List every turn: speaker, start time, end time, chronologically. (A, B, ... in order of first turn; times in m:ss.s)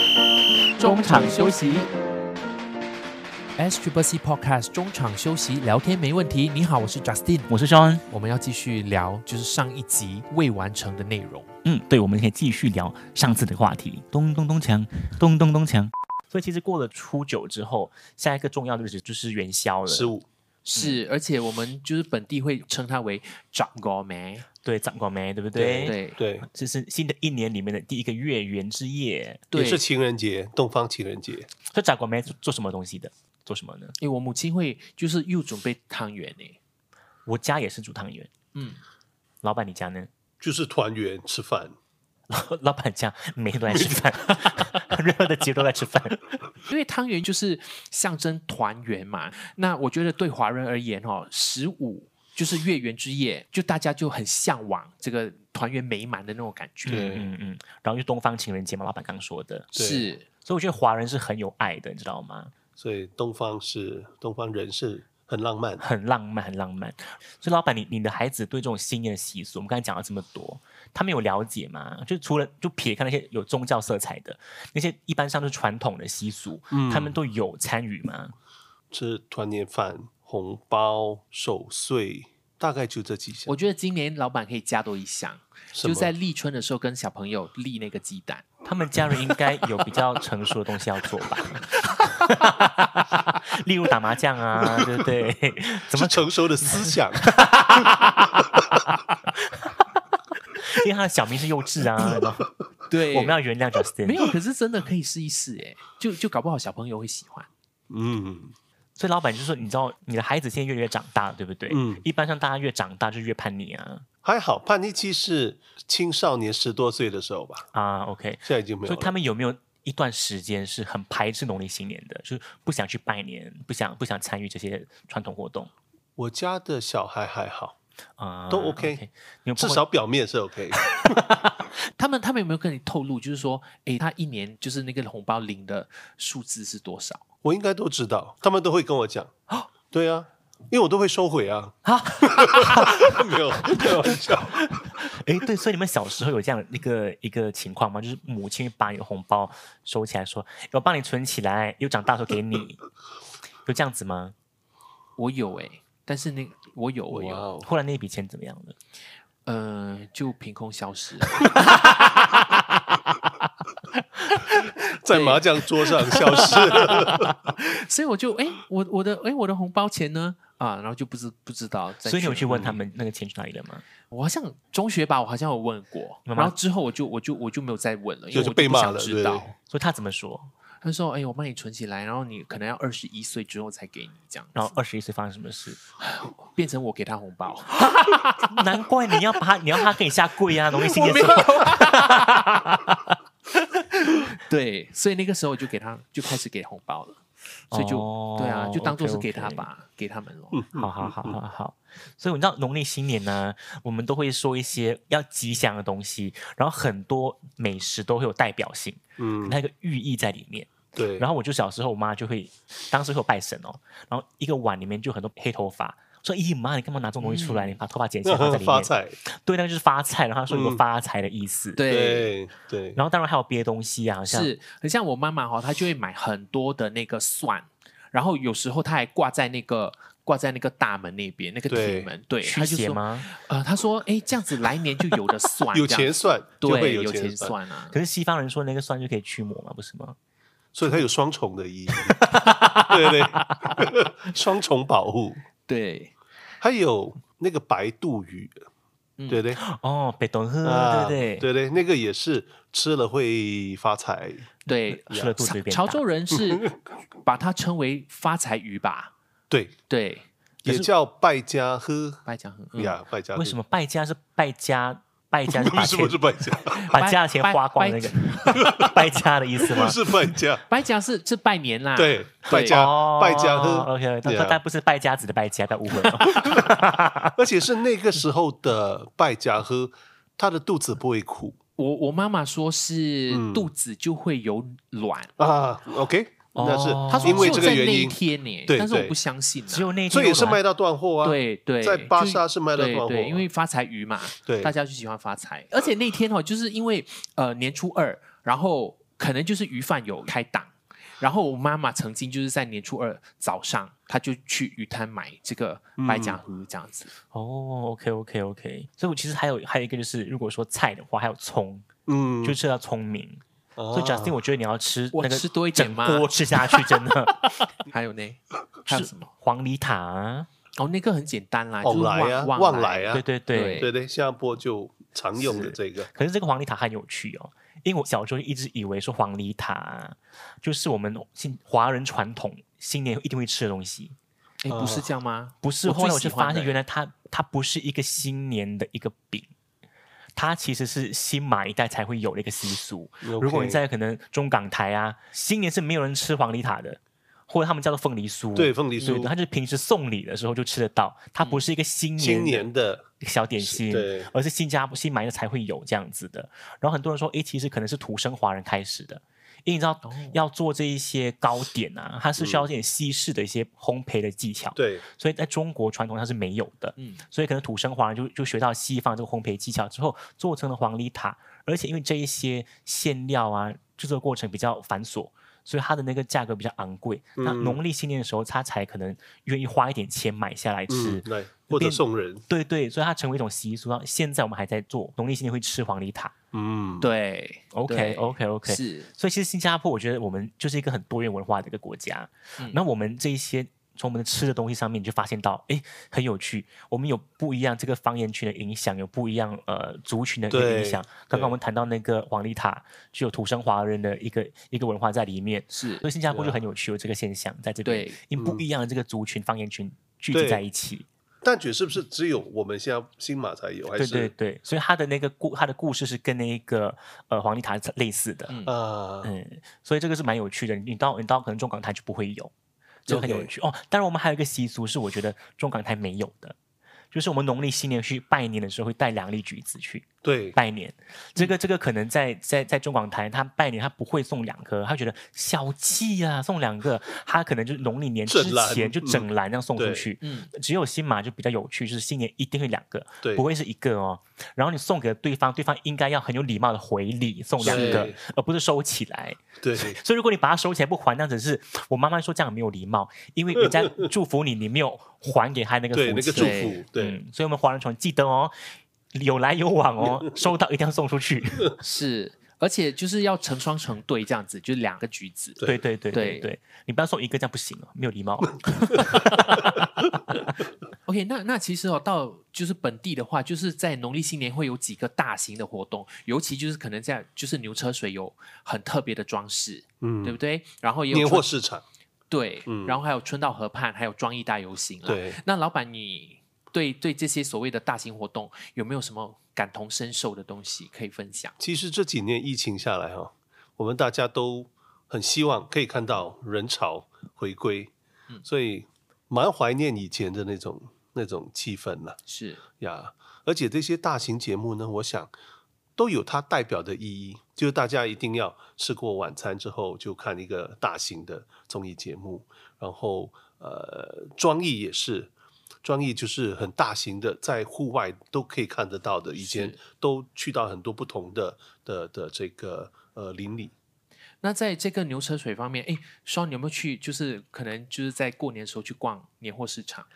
0:00.8-0:01.9 A
0:00.8-0:01.9 B
0:03.6-0:07.5 B
0:07.5-0:08.0 A
0:08.1-0:11.5 B
0:11.6-0:20.1 A
0:19.9-0:20.2 C
0:20.6-0:24.4 B
0:24.6-0:29.4 A
0:25.5-0:26.5 C
0:25.8-0:26.2 B
0:29.5-0:29.8 B
0:29.5-0:31.5 C
0:31.7-0:33.9 A
0:34.0-0:36.6 B
0:37.2-0:38.3 A
0:38.5-0:38.8 B
0:39.4-0:40.1 A
0:40.4-0:41.7 C
0:42.3-0:46.3 A
0:46.7-0:57.1 B
0:56.8-0:59.7 A
0:56.8-0:57.3 C
0:59.7-1:00.1 C
0:59.7-1:00.2 B
1:00.4-1:02.5 A
1:02.8-1:05.8 C
1:05.8-1:18.3 A
1:16.7-1:17.2 C
1:18.9-1:23.5 C
1:23.4-1:28.5 B
1:25.7-1:26.1 C
1:28.6-1:38.6 A
1:34.6-1:35.1 C
1:35.9-1:37.4 C
1:40.6-1:44.3 A
1:42.9-1:43.4 B
1:44.0-1:47.5 B
1:47.9-1:48.5 C
1:49.0-1:54.0 A
1:51.7-1:52.0 C
1:54.2-1:57.6 C
1:57.7-2:05.7 A
1:58.4-1:59.1 C
2:06.2-2:07.8 C
2:08.2-2:09.8 A
2:08.5-2:09.0 C
2:09.6-2:11.1 C
2:10.7-2:11.5 A
2:11.9-2:17.2 B
2:17.4-2:19.3 C
2:19.9-2:24.7 C
2:21.8-2:24.2 A
2:25.1-2:32.8 A
2:33.6-2:34.3 A
2:35.2-2:37.4 B
2:37.1-2:37.7 C
2:37.6-2:38.8 A
2:39.4-2:42.6 B
2:44.2-2:52.8 B
2:44.8-2:47.3 C
2:52.0-2:53.8 A
2:52.5-2:52.8 C
2:54.1-2:59.5 B
2:56.3-2:56.5 A
2:58.3-2:59.5 C
2:59.7-3:00.5 A
3:00.8-3:04.7 B
3:04.5-3:05.8 A
3:06.0-3:08.6 B
3:08.5-3:12.7 A
3:10.7-3:13.0 B
3:13.5-3:20.6 B
3:17.7-3:19.7 A
3:20.5-3:21.4 C
3:20.7-3:41.8 A
3:29.2-3:29.6 C
3:30.9-3:31.3 C
3:37.2-3:37.8 B
3:38.2-3:39.2 C
3:40.5-3:40.8 C
3:41.7-3:42.3 B
3:41.8-3:43.0 C
3:43.0-3:44.5 A
3:44.3-3:58.0 B
3:51.7-3:52.1 C
3:52.4-3:53.3 A
3:55.7-3:57.5 C
3:57.9-4:00.2 A
4:00.7-4:02.2 C
4:02.1-4:03.8 A
4:02.9-4:05.4 C
4:05.7-4:06.1 B
4:06.6-4:08.5 C
4:09.3-4:09.6 C
4:09.6-4:11.5 A
4:10.6-4:14.5 C
4:14.6-4:19.1 B
4:14.9-4:16.0 A
4:15.1-4:15.4 C
4:19.5-4:19.8 C
4:19.9-4:20.3 B
4:20.6-4:22.2 C
4:22.2-4:23.0 B
4:22.7-4:23.6 C
4:23.3-4:26.3 A
4:25.5-4:26.9 C
4:26.8-4:28.6 B
4:26.9-4:30.1 A
4:28.6-4:29.0 C
4:29.6-4:30.6 C
4:30.6-4:32.8 B
4:32.0-4:34.6 C
4:32.5-4:37.3 A
4:36.0-4:36.7 C
4:37.4-4:41.6 C
4:41.8-4:45.3 B
4:43.3-4:43.7 C
4:45.4-4:49.2 C
4:46.5-4:47.9 A
4:47.1-4:50.0 B
4:49.7-4:50.6 A
4:50.1-4:53.5 C
4:51.2-5:07.1 B
4:54.4-4:54.7 C
5:06.0-5:06.4 C
5:07.3-5:11.8 A
5:12.0-5:12.6 C
5:12.4-5:17.6 A
5:13.8-5:14.4 C
5:15.1-5:17.1 B
5:17.7-5:19.3 B
5:18.9-5:20.5 A
5:20.8-5:23.9 B
5:21.8-5:23.2 C
5:23.1-5:23.9 A
5:23.8-5:26.1 C
5:25.4-5:34.2 A
5:34.6-5:36.8 B
5:34.7-5:35.0 C
5:35.6-5:39.5 A
5:40.4-5:52.7 A
5:43.2-5:43.8 C
5:48.6-5:49.3 C
5:51.4-5:51.7 B
5:52.2-5:53.0 C
5:53.2-6:26.3 A
5:53.6-5:54.3 C
6:00.0-6:00.4 B
6:02.4-6:02.7 C
6:04.8-6:05.0 C
6:07.0-6:07.2 B
6:17.4-6:17.8 C
6:20.9-6:22.4 C
6:26.5-6:27.1 C
6:27.0-6:29.1 B
6:27.7-6:51.0 A
6:40.5-6:41.6 C
6:45.7-6:46.1 B
6:46.3-6:46.6 C
6:47.8-6:48.2 B
6:48.4-6:48.6 C
6:50.3-6:50.6 C
6:51.4-6:54.3 C
6:53.9-6:58.6 A
6:58.5-6:58.7 B
6:58.6-6:59.3 C
6:59.2-7:02.5 A
7:03.0-7:06.6 A
7:03.1-7:03.5 C
7:07.1-7:41.8 A
7:10.2-7:10.6 C
7:18.3-7:20.1 C
7:20.2-7:20.5 B
7:27.6-7:28.2 C
7:27.6-7:28.1 B
7:29.6-7:30.0 C
7:35.9-7:37.2 C
7:36.3-7:36.8 B
7:41.8-7:45.6 B
7:45.6-7:50.4 A
7:46.1-7:46.5 B
7:51.0-8:01.5 B
8:00.0-8:00.4 C
8:01.1-8:01.8 C
8:02.3-8:11.5 B
8:02.7-8:03.0 C
8:05.0-8:05.4 C
8:11.6-8:17.9 C
8:18.4-8:22.2 C
8:22.3-8:22.6 B
8:22.8-8:25.3 C
8:26.0-8:35.3 C
8:35.8-8:43.7 C
8:39.4-8:39.8 B
8:44.4-8:50.1 B